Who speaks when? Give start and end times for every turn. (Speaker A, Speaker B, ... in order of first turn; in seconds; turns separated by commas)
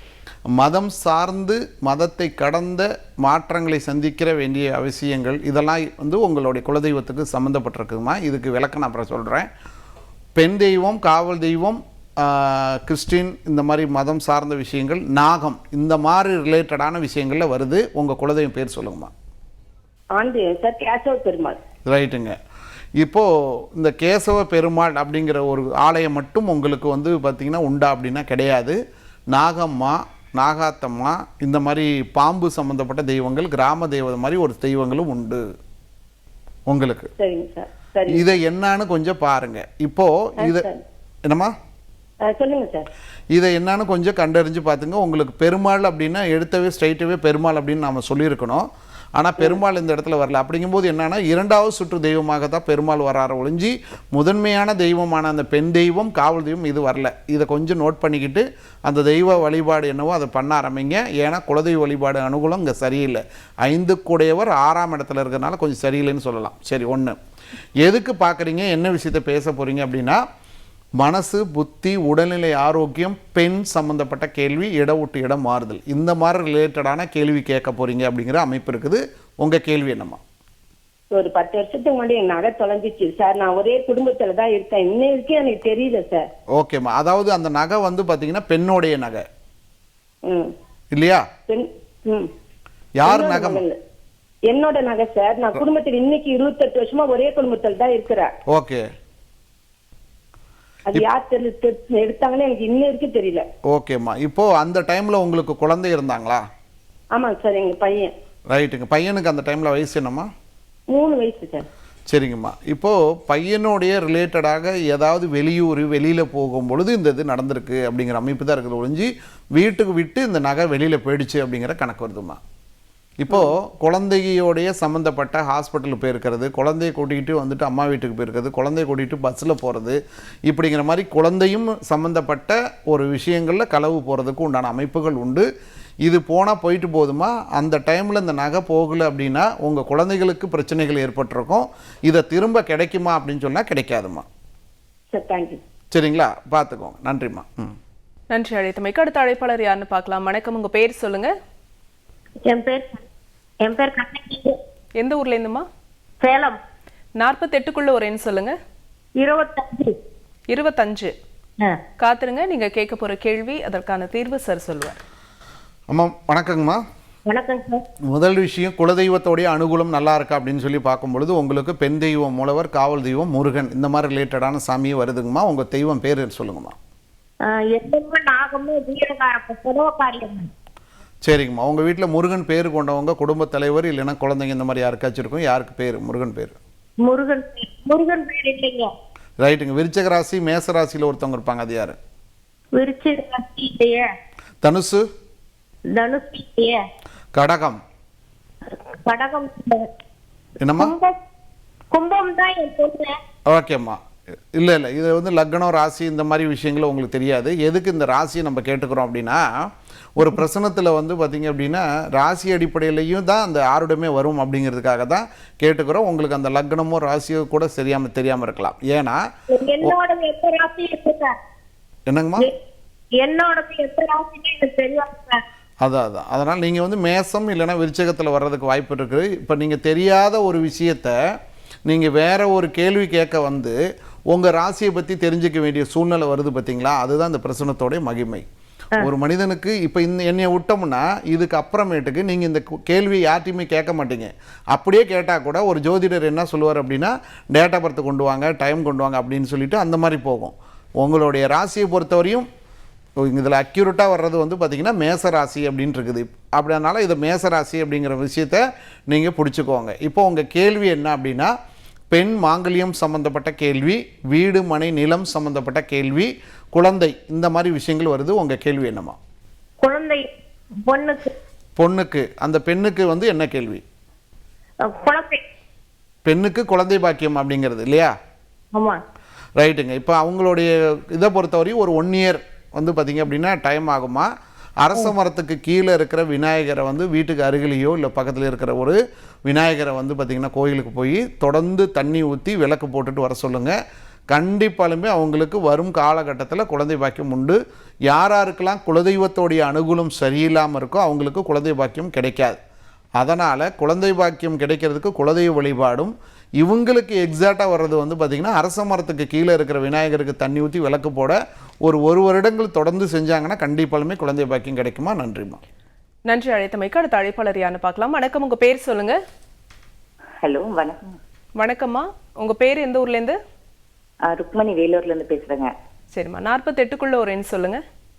Speaker A: 0.5-9.5, Speaker A: 10.3-19.1, Speaker B: 20.1-21.6, Speaker A: 21.8-22.4, Speaker A: 23.0-28.8, Speaker A: 29.3-35.4, Speaker A: 36.7-37.1, Speaker B: 37.2-38.2, Speaker A: 38.1-40.7, Speaker B: 40.4-40.8, Speaker A: 41.2-41.5, Speaker B: 42.2-42.9, Speaker A: 43.3-67.2, Speaker A: 67.8-70.2, Speaker A: 71.0-80.2, Speaker B: 81.1-86.2, Speaker A: 86.5-89.2, Speaker B: 90.2-90.5, Speaker A: 90.9-91.3, Speaker B: 91.5-92.3, Speaker A: 93.0-93.6, Speaker B: 93.0-93.8, Speaker B: 94.5-98.3, Speaker A: 98.5-98.9, Speaker B: 100.8-103.5, Speaker A: 103.6-106.5, Speaker B: 107.1-108.1, Speaker A: 108.5-110.3, Speaker B: 110.9-111.7, Speaker A: 112.1-122.4, Speaker A: 123.2-135.4, Speaker A: 136.0-144.2, Speaker B: 145.1-145.6, Speaker A: 145.9-147.8, Speaker C: 148.3-151.3, Speaker D: 152.4-153.0, Speaker D: 153.6-154.6, Speaker C: 155.0-155.7, Speaker D: 156.2-156.6, Speaker C: 157.2-158.6, Speaker D: 159.2-159.9, Speaker C: 160.5-161.1, Speaker C: 162.0-165.0, Speaker A: 165.9-166.8, Speaker D: 167.2-167.8, Speaker A: 168.1-176.8, Speaker D: 177.4-180.5, Speaker A: 181.2-186.6, Speaker D: 187.0-188.9, Speaker A: 189.4-192.0, Speaker D: 192.7-194.1, Speaker A: 194.6-195.1, Speaker D: 195.9-196.8, Speaker A: 197.3-197.8, Speaker D: 198.8-199.9, Speaker A: 200.6-200.9, Speaker D: 200.8-201.2, Speaker D: 201.9-203.2, Speaker A: 203.5-204.0, Speaker A: 204.5-219.2, Speaker D: 219.5-221.4, Speaker A: 222.1-222.5, Speaker D: 223.2-225.4, Speaker A: 225.8-231.2, Speaker A: 231.8-233.8, Speaker A: 234.3-238.4, Speaker A: 239.0-252.5, Speaker A: 253.2-261.5, Speaker A: 262.1-269.2, Speaker D: 269.8-271.3, Speaker A: 271.8-273.8, Speaker D: 274.8-275.4, Speaker A: 276.2-278.1, Speaker D: 278.7-279.0, Speaker A: 279.6-284.3, Speaker A: 284.8-293.8, Speaker A: 294.3-302.6, Speaker A: 303.2-315.6, Speaker C: 316.3-319.2, Speaker E: 320.4-321.2, Speaker C: 321.6-323.4, Speaker E: 324.3-325.7, Speaker C: 326.1-327.8